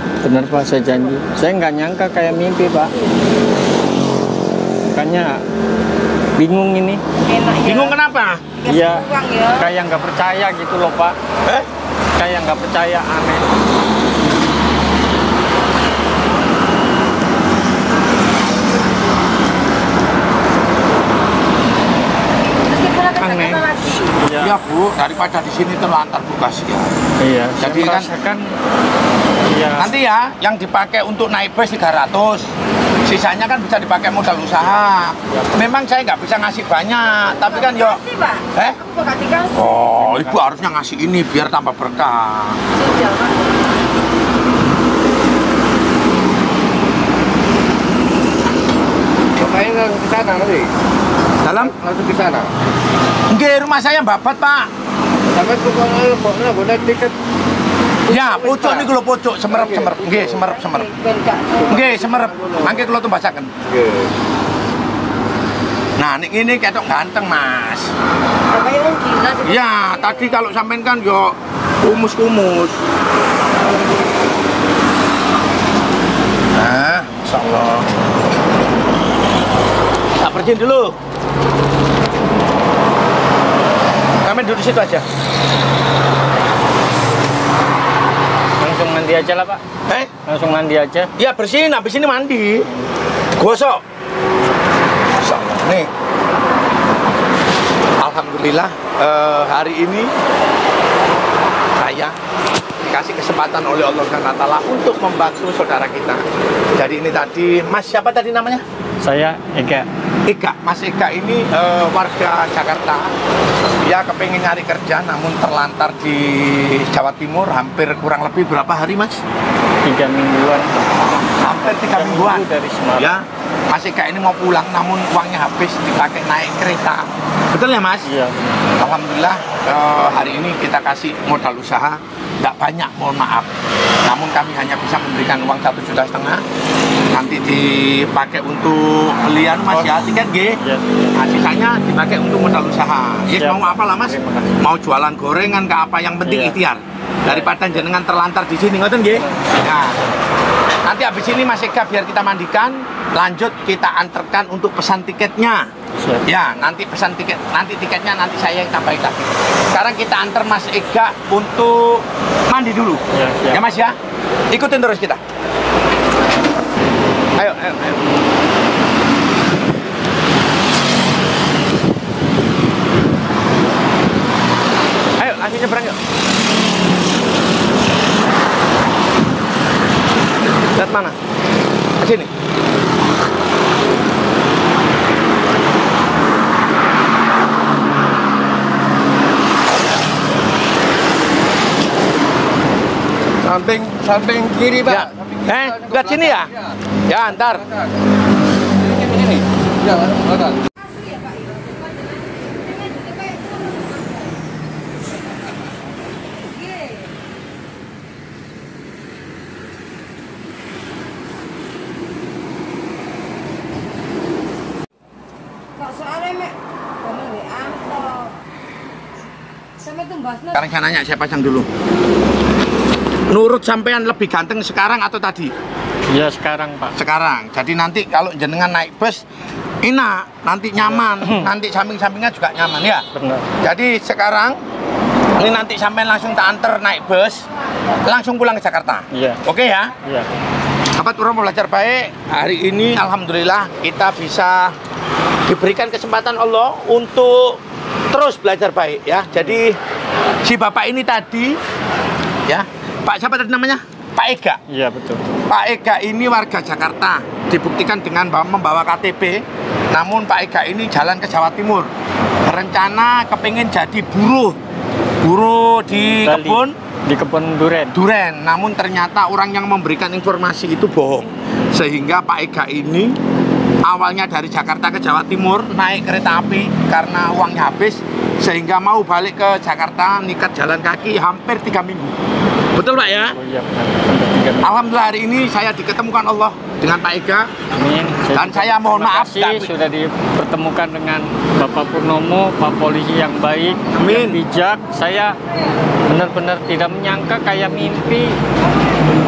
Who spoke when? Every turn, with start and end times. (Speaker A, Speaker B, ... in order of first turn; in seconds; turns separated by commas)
Speaker A: 0.2-2.9, Speaker A: 4.8-5.4, Speaker A: 6.3-7.0, Speaker B: 7.2-8.0, Speaker C: 7.6-8.5, Speaker B: 8.6-9.7, Speaker A: 8.6-11.2, Speaker A: 12.2-13.5, Speaker B: 22.6-24.2, Speaker A: 23.2-24.6, Speaker C: 24.3-26.9, Speaker A: 27.2-28.6, Speaker C: 27.6-28.1, Speaker A: 29.5-29.9, Speaker C: 29.8-32.5, Speaker C: 33.0-38.8, Speaker A: 35.3-35.6, Speaker B: 37.2-39.7, Speaker C: 39.5-42.6, Speaker A: 39.8-40.6, Speaker B: 42.7-43.5, Speaker D: 49.4-50.7, Speaker C: 51.4-51.8, Speaker D: 51.9-52.5, Speaker C: 53.3-54.7, Speaker D: 55.4-57.1, Speaker C: 58.0-60.9, Speaker B: 60.5-61.9, Speaker C: 61.7-63.5, Speaker C: 66.0-67.9, Speaker B: 68.5-70.3, Speaker C: 69.4-72.8, Speaker C: 76.5-77.9, Speaker C: 80.2-80.9, Speaker C: 84.2-85.0, Speaker A: 88.6-89.6, Speaker A: 90.2-91.1, Speaker C: 91.2-92.7, Speaker C: 93.3-93.8, Speaker C: 95.2-95.9, Speaker C: 98.0-100.1, Speaker C: 101.8-102.1, Speaker C: 102.9-106.2, Speaker C: 106.8-108.6, Speaker A: 109.0-109.9, Speaker C: 110.3-113.1, Speaker C: 113.8-119.2, Speaker A: 119.8-123.2, Speaker C: 121.3-128.1, Speaker A: 128.1-128.5, Speaker C: 128.7-133.5, Speaker C: 134.0-136.4, Speaker C: 137.1-140.6, Speaker A: 139.7-141.1, Speaker C: 141.1-150.0, Speaker A: 143.3-144.6, Speaker A: 146.2-146.6, Speaker A: 147.2-147.8, Speaker A: 149.1-149.4, Speaker C: 150.8-155.7, Speaker A: 156.0-156.2, Speaker C: 156.2-163.9, Speaker A: 163.1-163.7, Speaker C: 164.5-165.2, Speaker C: 167.4-168.0, Speaker C: 175.2-176.0, Speaker C: 180.7-181.2, Speaker C: 182.0-182.3, Speaker A: 193.5-194.8, Speaker C: 194.8-196.5, Speaker C: 197.1-197.7, Speaker B: 200.9-203.9, Speaker B: 206.6-206.9, Speaker B: 215.8-218.3, Speaker B: 219.8-220.6, Speaker C: 220.5-221.7, Speaker C: 223.3-225.5, Speaker A: 226.1-226.9, Speaker C: 226.9-229.2, Speaker C: 229.8-233.0, Speaker A: 230.9-231.5, Speaker A: 233.1-233.5, Speaker C: 233.6-234.6, Speaker C: 235.4-237.5, Speaker C: 238.0-239.9, Speaker A: 239.1-239.4, Speaker A: 240.0-240.3, Speaker C: 240.9-244.7, Speaker C: 245.4-249.8, Speaker C: 250.4-251.6, Speaker C: 252.5-254.6, Speaker A: 254.7-255.2, Speaker C: 255.4-261.9, Speaker C: 262.4-264.6, Speaker C: 265.2-266.7, Speaker A: 265.9-267.9, Speaker C: 267.9-273.2, Speaker C: 273.8-282.1, Speaker C: 282.7-283.4, Speaker A: 283.1-284.8, Speaker C: 284.6-287.5, Speaker A: 287.7-295.4, Speaker C: 288.3-289.7, Speaker C: 293.9-294.4, Speaker A: 296.1-298.4